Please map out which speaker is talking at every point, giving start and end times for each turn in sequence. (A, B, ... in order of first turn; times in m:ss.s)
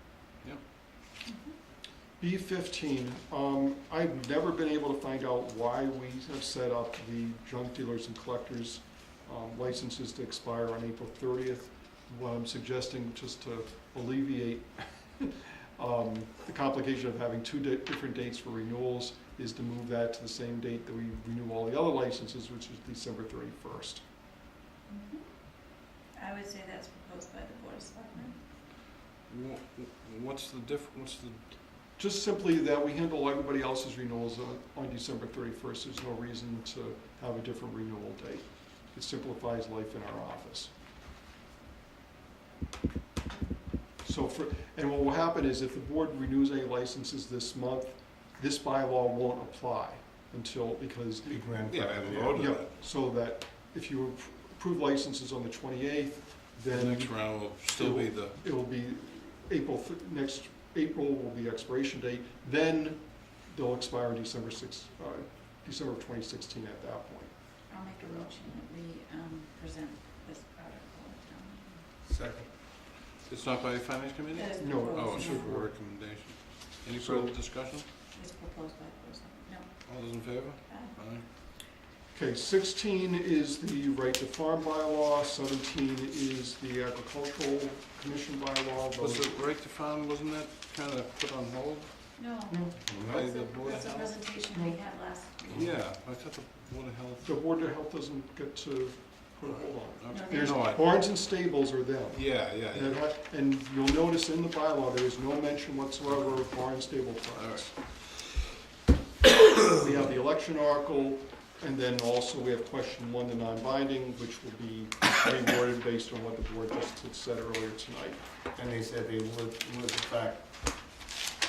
0:01.2-0:01.5 A
0:02.2-0:24.0 B
0:24.9-0:28.4 A
0:29.3-0:31.4 C
0:32.0-0:40.7 B
0:44.0-0:51.6 B
0:51.2-0:52.4 D
0:51.7-0:52.7 C
0:52.3-1:07.3 B
0:56.7-0:58.4 C
1:07.7-1:11.9 A
1:12.0-1:12.5 D
1:13.2-1:17.9 C
1:14.3-1:15.5 A
1:14.6-1:15.8 B
1:17.0-1:17.3 B
1:18.1-1:19.9 A
1:19.8-1:21.2 C
1:20.7-1:20.9 A
1:22.1-1:29.3 B
1:29.0-1:31.9 C
1:32.2-1:35.7 A
1:32.5-1:32.8 B
1:32.9-1:33.3 D
1:33.0-1:34.3 C
1:34.5-1:34.8 B
1:35.5-1:37.3 C
1:37.2-1:47.7 B
1:39.5-1:41.0 C
1:40.1-1:40.6 A
1:42.1-1:43.0 C
1:47.4-1:48.2 C
1:49.8-1:58.2 B
1:58.5-2:00.4 D